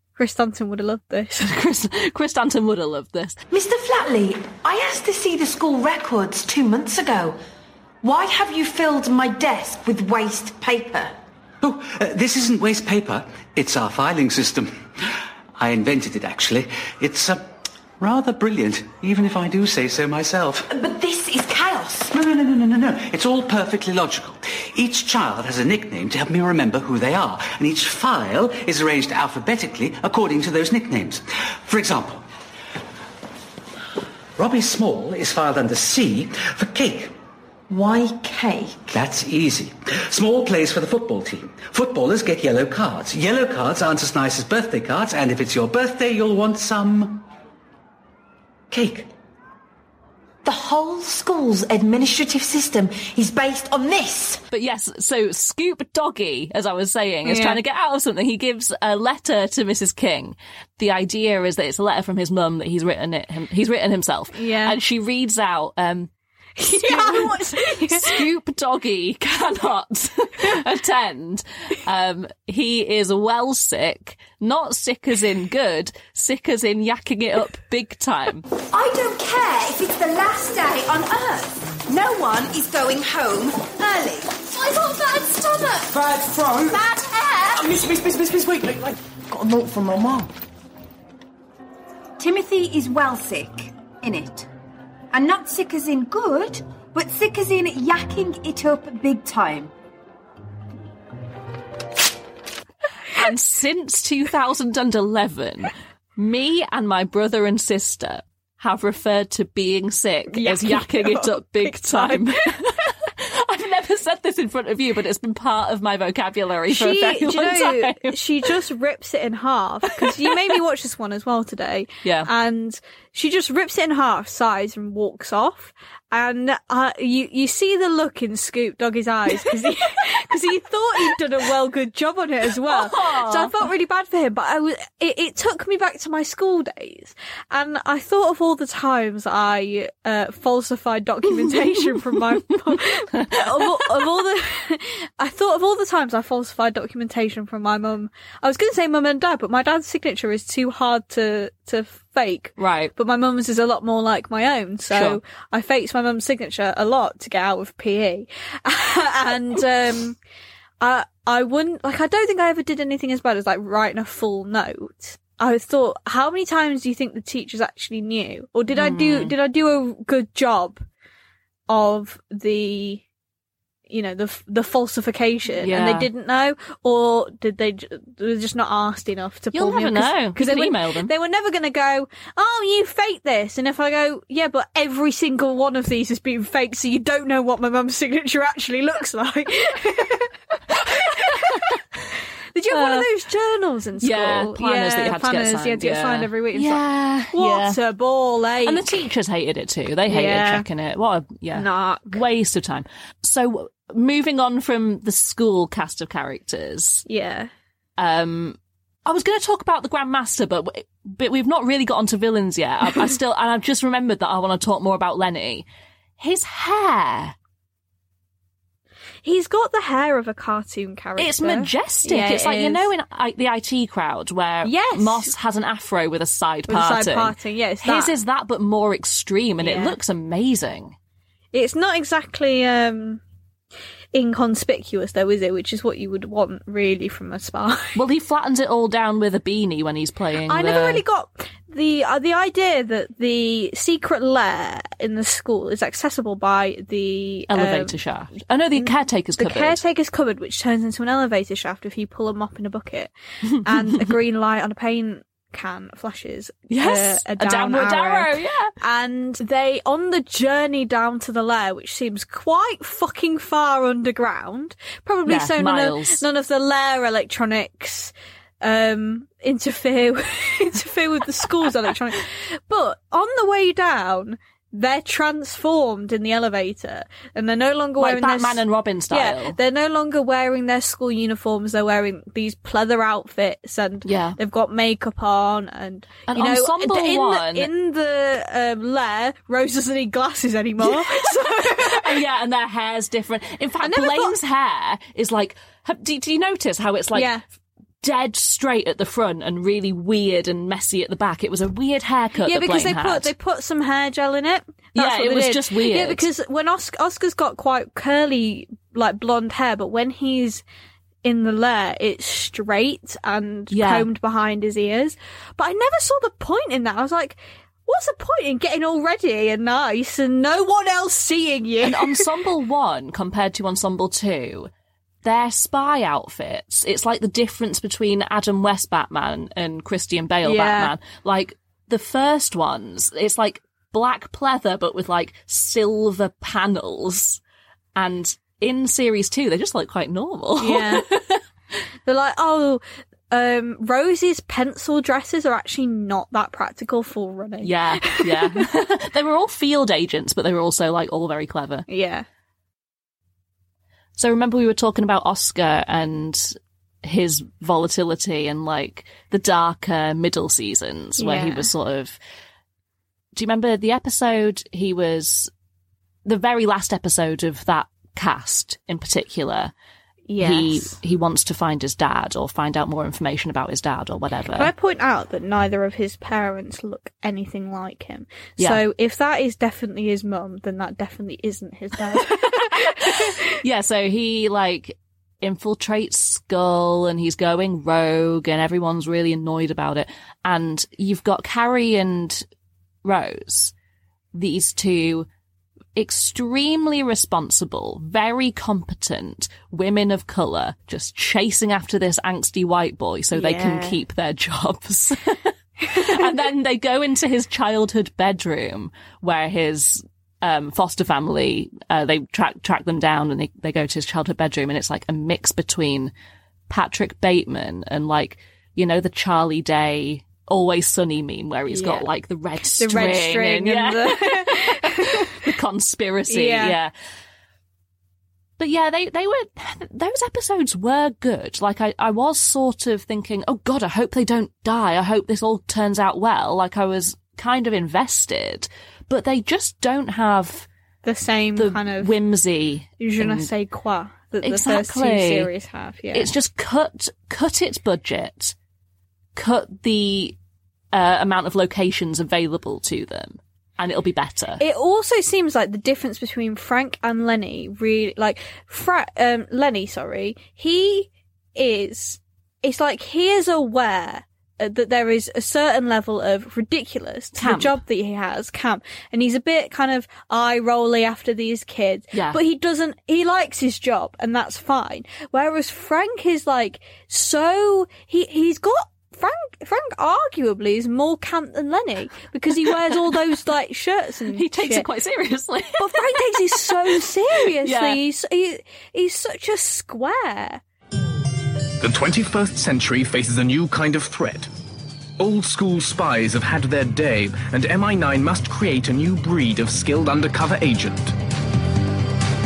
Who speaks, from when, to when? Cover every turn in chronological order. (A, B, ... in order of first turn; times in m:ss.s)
0:00.2-0:01.5 A
0:01.4-0:03.4 B
0:03.5-0:07.4 C
0:08.0-0:11.1 C
0:11.6-0:14.7 D
0:15.6-0:20.7 D
0:20.7-0:22.1 C
0:22.1-0:32.2 D
0:34.4-0:37.1 D
0:37.7-0:38.8 C
0:38.9-0:47.3 D
0:48.7-0:49.1 D
0:50.4-0:54.4 C
0:54.5-1:06.1 B
0:57.2-0:57.6 A
1:04.3-1:04.8 A
1:06.6-1:08.2 A
1:06.6-1:18.4 B
1:22.8-1:23.4 E
1:25.8-1:26.8 F
1:27.5-1:30.3 F
1:32.2-1:34.4 E
1:35.1-1:39.7 E
1:43.1-1:58.5 B
1:50.3-1:52.3 A
1:56.7-2:40.2 A
2:00.0-2:00.5 B
2:02.0-2:02.3 B
2:12.6-2:13.5 B
2:21.3-2:24.0 B
2:32.6-2:32.9 B
2:34.9-2:35.2 B
2:40.8-2:50.8 A
2:48.7-2:49.3 B
2:51.7-2:53.0 A
2:53.9-3:11.7 A
2:55.6-2:56.1 B
2:59.5-3:01.1 B
3:10.8-3:11.8 B
3:12.5-3:18.8 A
3:12.7-3:13.0 B
3:14.0-3:17.8 B
3:18.6-3:27.0 B
3:20.1-3:20.7 A
3:21.5-3:22.2 A
3:27.1-3:27.5 A
3:28.0-3:35.7 B
3:36.2-3:37.3 B
3:39.2-3:42.9 A
3:41.2-3:50.9 B
3:44.6-3:45.3 A
3:46.7-3:48.1 A
3:49.6-3:50.0 A
3:51.5-3:53.2 A
3:54.1-3:58.0 A
3:57.9-4:01.0 B
4:00.4-4:08.0 A
4:07.5-4:09.8 B
4:08.8-4:13.1 A
4:13.6-4:14.1 B
4:13.6-4:52.2 A
4:16.7-4:18.7 B
4:25.2-4:26.2 B
4:38.0-4:39.6 B
4:44.0-4:44.4 B
4:46.3-4:47.7 B
4:50.8-4:57.3 B
4:53.8-4:54.4 A
4:57.1-4:57.4 A
4:58.0-5:03.3 B
5:02.4-5:10.6 A
5:04.9-5:06.2 B
5:11.2-5:22.3 A
5:13.7-5:14.1 B
5:21.8-5:24.7 B
5:25.2-5:37.4 B
5:30.4-5:30.9 A
5:38.0-5:41.4 B
5:40.6-5:41.1 A
5:42.0-5:48.6 A
5:47.6-5:51.8 B
5:51.9-5:52.2 A
5:54.2-6:02.2 B
6:01.2-6:01.7 A
6:03.3-6:05.5 B
6:06.2-6:09.7 B
6:10.3-6:11.0 A
6:10.4-6:14.7 B
6:14.5-6:23.4 A
6:22.2-6:32.4 B
6:33.0-6:33.7 B
6:34.3-6:35.3 B
6:35.9-6:56.1 B
6:43.3-6:44.0 A
6:45.8-6:46.4 A
6:56.7-7:06.9 B
7:01.7-7:02.0 A
7:02.8-7:05.3 A
7:06.3-7:06.8 A
7:08.6-7:20.7 B
7:21.0-7:22.1 A
7:21.6-7:23.5 B
7:23.0-7:26.3 A
7:24.4-7:25.5 B
7:26.1-7:28.5 B
7:29.4-7:30.4 B
7:30.9-7:34.6 B
7:34.6-8:04.9 A
7:47.4-7:47.8 B
7:52.1-7:52.4 B
8:02.5-8:03.2 B
8:04.3-8:07.0 B
8:05.8-8:10.6 A
8:07.6-8:08.0 B
8:11.8-8:14.5 G
8:15.2-8:21.1 G